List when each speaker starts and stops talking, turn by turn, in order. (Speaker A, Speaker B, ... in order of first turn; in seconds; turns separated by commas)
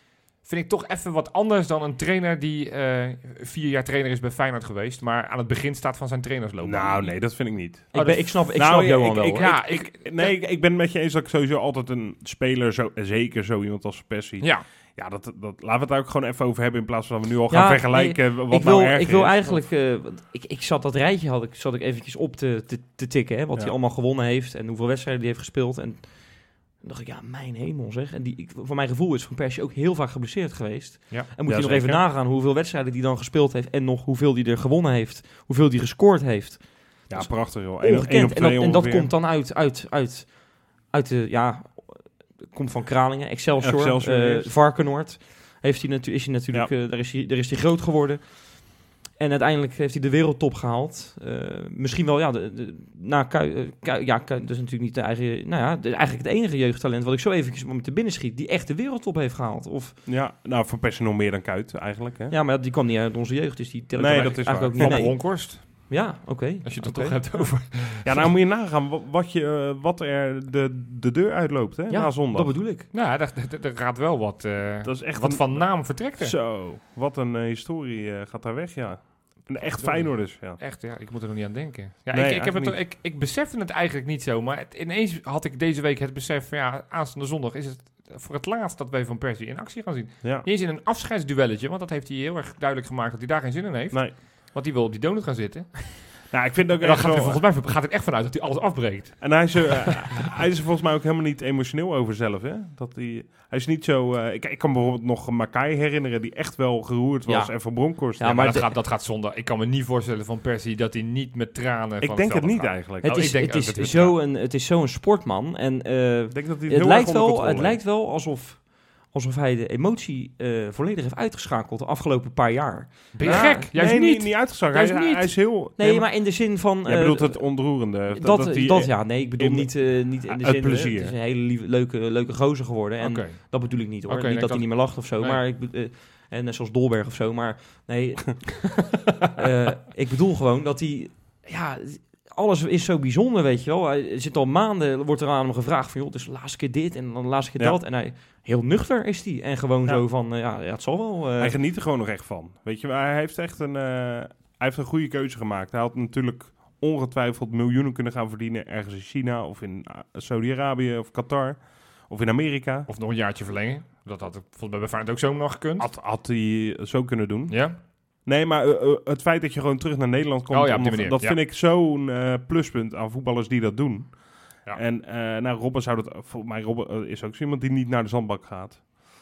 Speaker A: 0.4-10.4, Speaker B: 6.6-19.6, Speaker C: 7.9-9.5, Speaker C: 17.5-48.6, Speaker B: 31.5-32.0, Speaker B: 37.1-39.1, Speaker B: 43.6-44.5, Speaker C: 49.2-60.0, Speaker B: 60.1-62.3, Speaker C: 62.3-67.6, Speaker B: 64.0-65.1, Speaker A: 64.1-66.0, Speaker A: 66.7-68.3, Speaker B: 68.0-72.6, Speaker C: 71.9-72.9, Speaker A: 72.9-76.4, Speaker B: 74.8-80.6, Speaker A: 79.8-100.0, Speaker B: 82.1-82.8, Speaker B: 90.2-90.5, Speaker B: 96.3-97.4, Speaker B: 99.2-108.7, Speaker C: 107.3-108.8, Speaker A: 108.4-114.2, Speaker B: 112.0-113.2, Speaker C: 113.0-123.7, Speaker B: 116.3-117.8, Speaker A: 123.1-125.5, Speaker B: 123.2-131.2, Speaker C: 125.8-151.6, Speaker A: 133.0-135.4, Speaker B: 151.4-162.9, Speaker A: 162.9-165.9, Speaker B: 165.8-167.7, Speaker A: 167.5-167.8, Speaker B: 168.2-178.9, Speaker A: 170.5-171.4